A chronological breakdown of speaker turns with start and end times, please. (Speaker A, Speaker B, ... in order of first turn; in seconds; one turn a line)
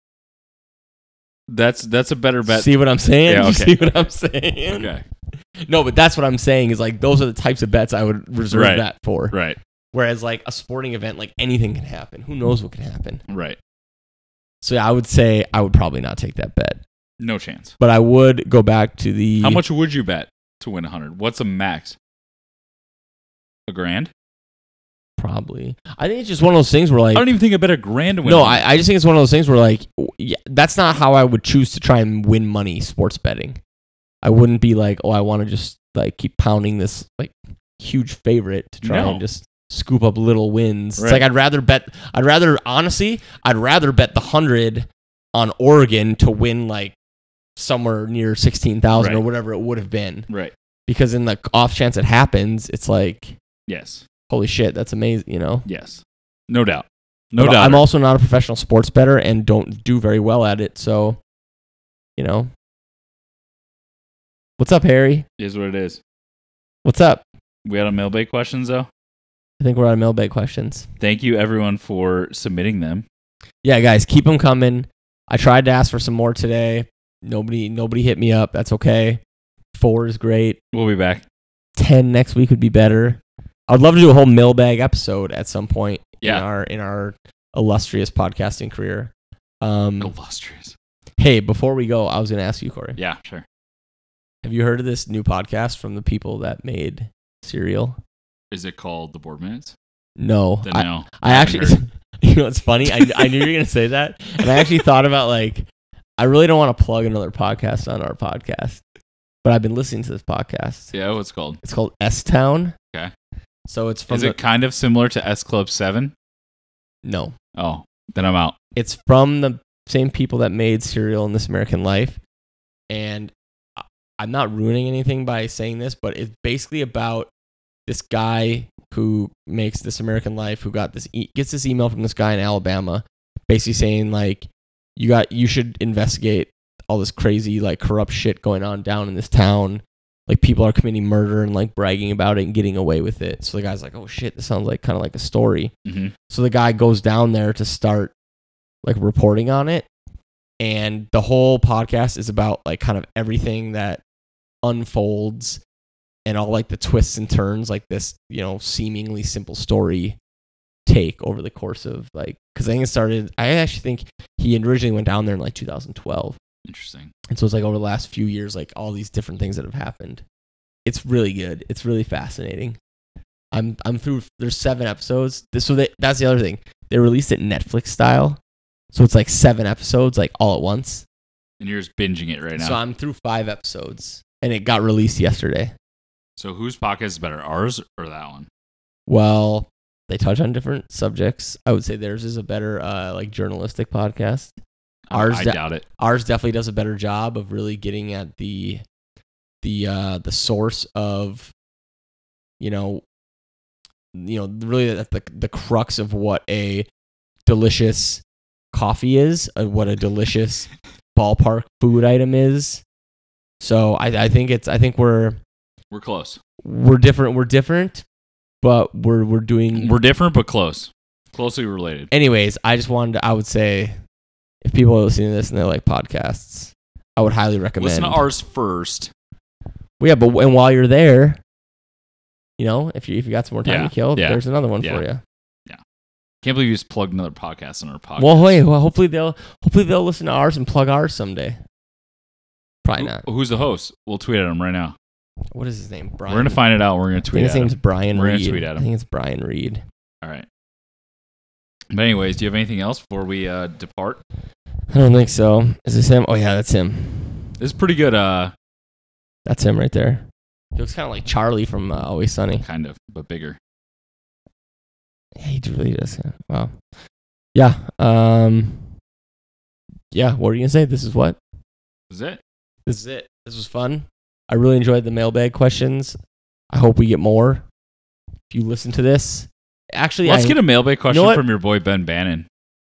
Speaker A: 1.5-4.1
Speaker B: 2.5-4.9
Speaker A: 4.7-5.0
Speaker B: 5.6-9.3
Speaker A: 8.5-9.6
Speaker B: 9.9-13.2
Speaker A: 13.3-13.6
Speaker B: 14.6-16.8
Speaker A: 17.2-17.7
Speaker B: 17.8-19.6
Speaker A: 19.4-22.0
Speaker A: 23.7-24.1
Speaker B: 25.2-27.3
Speaker A: 27.1-28.6
Speaker B: 28.2-33.6
Speaker B: 34.2-47.0
Speaker A: 38.8-39.2
Speaker A: 41.0-41.2
Speaker B: 47.6-50.3
Speaker A: 49.0-49.2
Speaker A: 50.3-50.5
Speaker B: 50.9-53.4
Speaker A: 53.7-54.1
Speaker B: 54.3-55.7
Speaker A: 55.6-57.9
Speaker B: 57.4-61.2
Speaker B: 62.2-62.5
Speaker B: 64.6-65.3
Speaker A: 65.4-66.0
Speaker B: 66.8-67.2
Speaker A: 67.7-68.9
Speaker B: 69.6-70.9
Speaker A: 71.0-73.0
Speaker B: 73.6-79.2
Speaker B: 79.7-80.6
Speaker A: 80.7-81.2
Speaker B: 81.8-90.1
Speaker A: 90.0-90.8
Speaker B: 91.2-93.0
Speaker A: 93.0-93.5
Speaker B: 94.4-98.0
Speaker A: 98.5-99.7
Speaker B: 100.2-105.7
Speaker A: 100.6-101.8
Speaker B: 106.2-108.8
Speaker B: 109.4-110.9
Speaker A: 110.9-111.6
Speaker B: 111.6-112.8
Speaker B: 113.7-114.4
Speaker A: 114.1-116.1
Speaker B: 117.0-117.3
Speaker A: 117.6-118.6
Speaker B: 118.8-122.2
Speaker B: 122.9-127.3
Speaker B: 127.9-145.7
Speaker A: 145.8-146.1
Speaker B: 146.3-148.1
Speaker B: 148.8-149.9
Speaker B: 150.6-154.0
Speaker B: 154.6-155.6
Speaker B: 156.3-160.2
Speaker B: 160.9-166.4
Speaker A: 166.7-167.1
Speaker B: 167.3-170.2
Speaker B: 170.8-172.8
Speaker B: 173.5-178.4
Speaker B: 178.9-181.1
Speaker A: 181.6-182.8
Speaker B: 182.6-185.7
Speaker A: 186.4-188.5
Speaker B: 189.1-194.5
Speaker A: 195.1-195.8
Speaker B: 195.1-198.8
Speaker B: 199.6-201.5
Speaker B: 202.6-203.0
Speaker B: 204.1-206.9
Speaker B: 207.5-212.8
Speaker B: 213.6-215.4
Speaker A: 215.9-216.4
Speaker B: 216.6-218.0
Speaker B: 218.6-220.0
Speaker A: 219.7-222.1
Speaker B: 222.1-223.9
Speaker B: 224.6-228.2
Speaker A: 227.8-229.1
Speaker B: 230.0-231.4
Speaker B: 232.6-235.2
Speaker A: 233.7-235.0
Speaker A: 236.4-238.6
Speaker B: 238.2-241.6
Speaker B: 242.8-243.2
Speaker A: 243.0-245.0
Speaker B: 245.5-246.6
Speaker A: 246.3-248.9
Speaker B: 247.3-249.8
Speaker A: 251.9-254.2
Speaker B: 254.9-257.5
Speaker A: 257.6-258.5
Speaker B: 259.5-262.6
Speaker A: 262.6-263.6
Speaker B: 265.4-266.7
Speaker B: 267.6-268.9
Speaker B: 270.1-271.4
Speaker A: 272.1-272.4
Speaker B: 272.9-276.2
Speaker B: 276.7-277.6
Speaker B: 278.5-281.4
Speaker A: 280.2-282.5